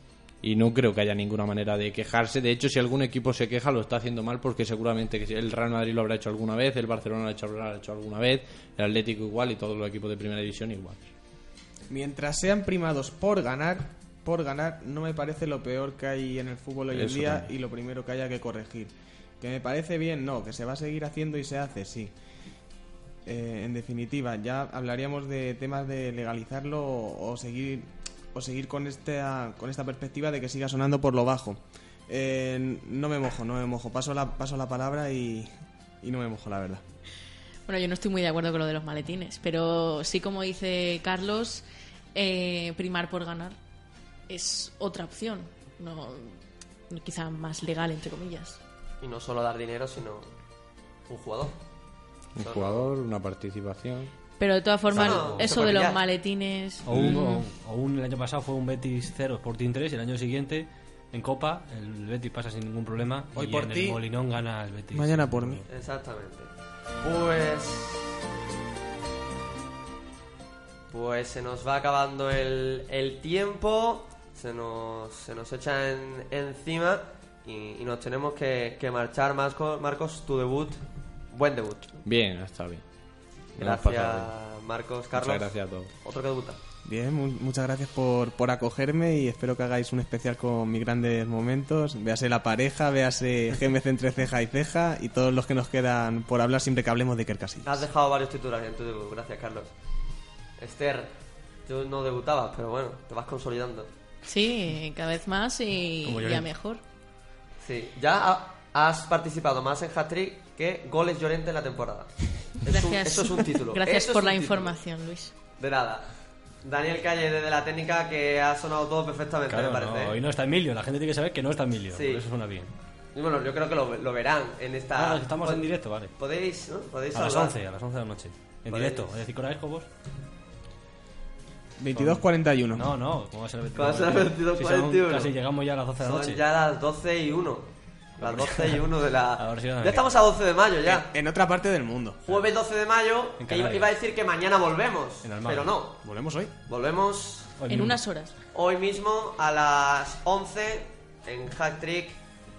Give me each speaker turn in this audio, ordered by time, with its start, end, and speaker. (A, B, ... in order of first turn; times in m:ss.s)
0:00.4-0:11.1 A
0:11.9-0:22.1 B
0:16.9-0:17.5 A
0:23.2-0:35.5 B
0:36.0-0:36.8 B
0:37.7-0:43.6 C
0:44.3-0:48.6 C
0:49.0-0:50.3 D
0:51.0-0:51.6 D
0:52.3-0:54.1 A
0:52.4-0:52.9 D
0:54.4-0:57.4 C
0:54.9-0:56.0 D
0:55.0-0:55.5 A
0:56.8-1:05.6 E
1:03.3-1:04.0 B
1:04.9-1:05.6 B
1:05.7-1:06.5 D
1:07.0-1:08.0 D
1:10.9-1:22.0 D
1:22.0-1:22.8 A
1:23.5-1:24.3 A
1:23.6-1:26.6 D
1:25.1-1:25.9 A
1:26.8-1:37.8 B
1:37.6-1:39.7 D
1:40.6-1:41.1 D
1:41.6-1:43.9 D
1:44.2-1:46.8 C
1:46.0-1:46.5 E
1:47.6-1:54.8 D
1:52.6-1:55.3 C
1:55.6-2:00.2 D
1:59.5-2:02.7 E
2:01.9-2:02.2 D
2:03.1-2:07.5 D
2:04.9-2:06.1 E
2:07.1-2:09.9 E
2:08.7-2:09.1 D
2:11.8-2:12.8 B
2:11.9-2:16.4 E
2:13.7-2:15.3 D
2:16.0-2:21.1 D
2:18.2-2:18.8 E
2:19.4-2:20.2 E
2:20.8-2:22.2 B
2:22.2-2:26.0 D
2:23.4-2:23.9 E
2:25.2-2:25.8 E
2:26.0-2:26.5 B
2:26.7-2:27.5 D
2:27.6-2:28.0 E
2:27.7-2:28.3 C
2:28.5-2:32.2 D